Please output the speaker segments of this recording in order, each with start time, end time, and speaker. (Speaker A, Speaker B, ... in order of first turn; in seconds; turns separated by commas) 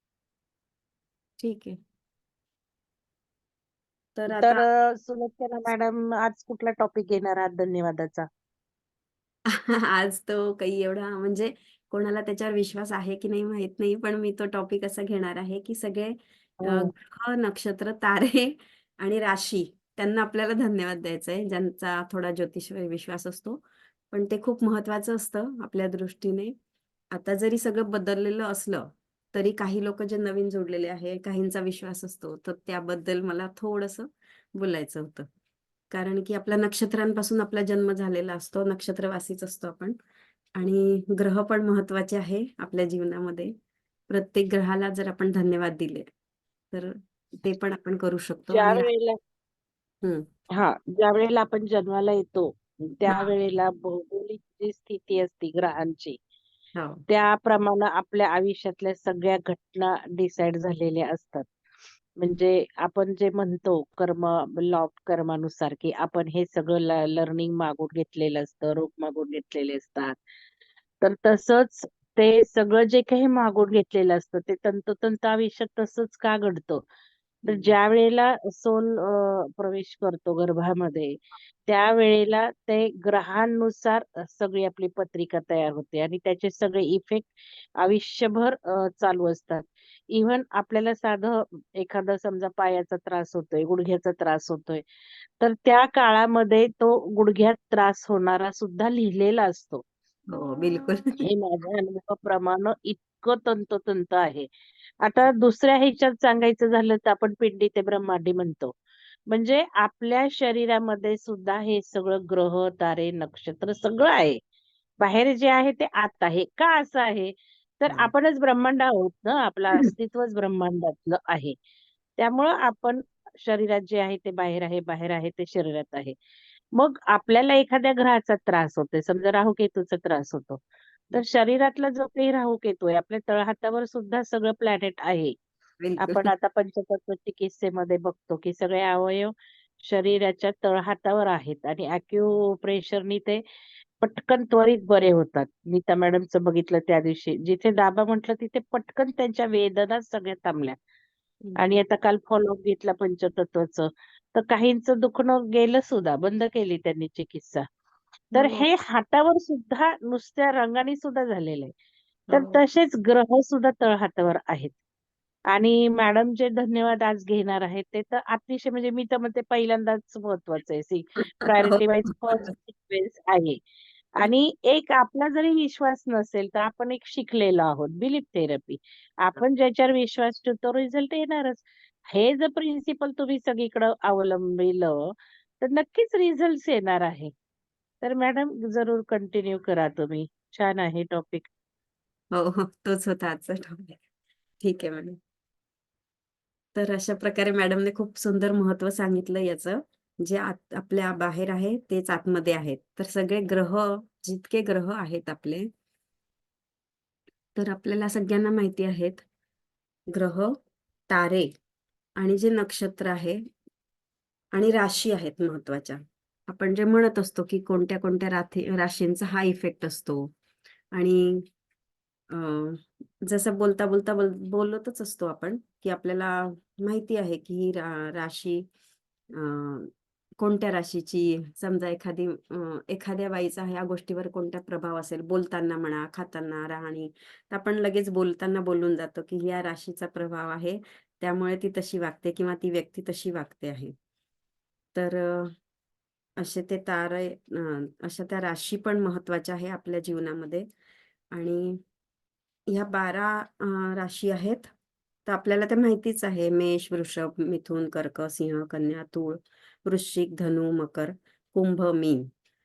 Speaker A: 1.4-1.8, Speaker A: 4.2-4.7, Speaker B: 4.3-8.3, Speaker A: 9.6-23.6, Speaker B: 16.6-16.9, Speaker A: 24.1-26.5, Speaker A: 27.1-35.3, Speaker A: 35.9-40.0, Speaker A: 40.6-43.5, Speaker A: 44.1-46.1, Speaker A: 46.7-48.9, Speaker B: 48.5-49.2, Speaker B: 50.5-56.2, Speaker A: 53.1-53.3, Speaker A: 56.8-57.0, Speaker B: 57.1-61.5, Speaker B: 62.2-70.2, Speaker B: 71.0-76.8, Speaker A: 77.5-77.8, Speaker B: 77.5-94.8, Speaker B: 95.4-99.8, Speaker A: 100.3-101.2, Speaker B: 101.2-104.5, Speaker B: 105.0-108.8, Speaker B: 109.3-114.4, Speaker B: 115.0-121.6, Speaker B: 122.2-126.2, Speaker B: 126.8-130.6, Speaker B: 131.1-135.3, Speaker A: 135.8-136.3, Speaker B: 136.0-143.4, Speaker B: 144.0-150.8, Speaker A: 151.4-151.8, Speaker B: 151.6-157.7, Speaker A: 158.3-158.7, Speaker B: 158.3-161.7, Speaker A: 162.3-162.6, Speaker B: 162.3-164.7, Speaker B: 165.5-173.6, Speaker A: 171.6-171.8, Speaker B: 174.2-187.3, Speaker B: 188.0-191.5, Speaker A: 192.3-194.0, Speaker A: 194.6-195.2, Speaker A: 196.8-205.7, Speaker A: 207.6-209.2, Speaker A: 210.1-210.5, Speaker A: 211.1-211.5, Speaker A: 212.2-213.4, Speaker A: 214.5-220.3, Speaker A: 220.9-221.4, Speaker A: 222.3-228.6, Speaker A: 229.4-243.9, Speaker A: 244.9-245.5, Speaker A: 246.4-250.7, Speaker A: 251.3-251.8, Speaker A: 252.7-254.7, Speaker A: 255.3-262.3